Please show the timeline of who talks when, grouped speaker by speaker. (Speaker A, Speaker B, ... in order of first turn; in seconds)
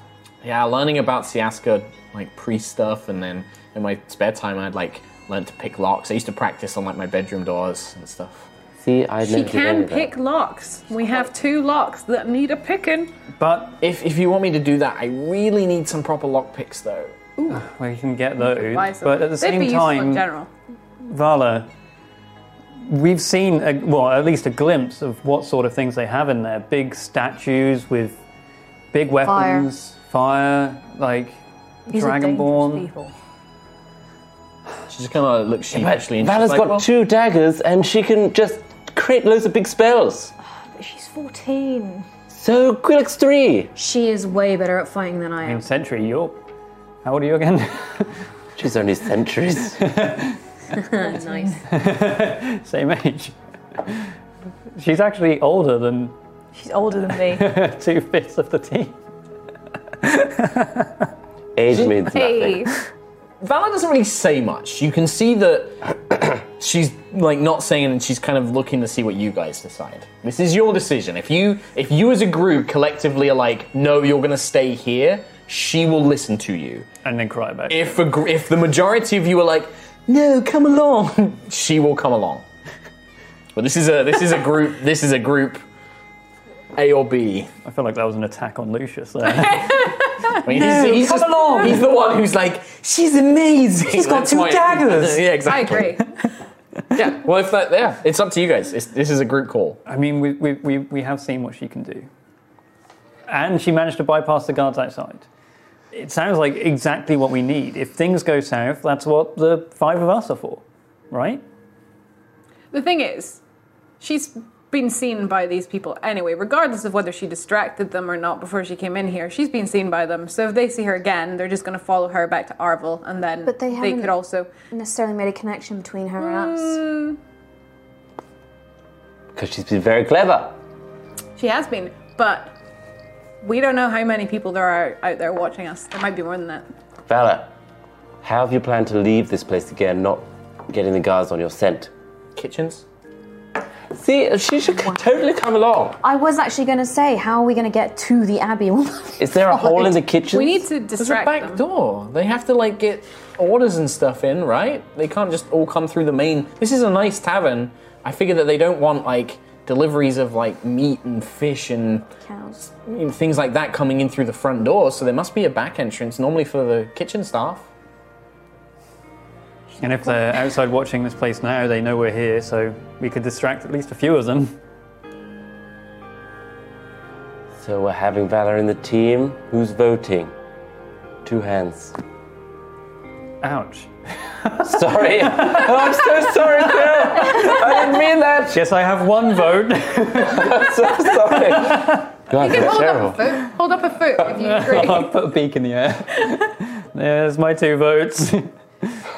Speaker A: 0.4-8.5, 13.8-17.3, 34.9-36.9, 63.4-76.9, 77.7-82.4, 83.5-85.6, 86.8-87.5, 90.4-96.0, 96.9-99.8, 142.4-142.8, 151.0-162.1, 162.6-167.7
Speaker B: 8.8-10.1, 35.7-40.3, 42.3-43.7, 48.5-49.8, 61.5-62.7, 129.3-130.6, 137.1-137.5, 138.2-141.9, 143.9-146.0, 149.2-150.7, 177.6-180.3, 181.2-181.9, 184.6-188.6, 190.2-193.5
Speaker C: 9.2-13.1, 18.4-20.5, 62.0-62.7, 89.5-90.4, 95.4-96.1, 112.7-113.4, 114.0-124.5, 126.2-127.2, 131.4-132.5, 133.4-136.7, 150.2-151.6, 192.3-195.1
Speaker D: 13.4-13.8, 17.5-20.3, 21.0-21.7, 22.8-28.2, 28.9-32.9, 45.4-46.4, 47.0-48.1, 49.8-50.4, 51.7-54.1, 54.7-56.1, 57.3-59.0, 60.0-61.1, 77.0-77.9, 87.6-91.8, 93.9-95.3, 99.9-102.1, 103.3-105.2, 105.9-111.4, 169.8-174.6, 183.4-183.9, 184.4-186.3, 187.2-187.6, 188.5-192.1, 194.4-199.0
Speaker E: 29.2-29.7, 43.7-45.6, 50.7-51.6, 123.4-124.2, 124.7-126.9, 146.0-150.1, 162.2-162.6
Speaker F: 31.9-33.1, 40.4-42.1, 51.1-51.6, 56.5-57.5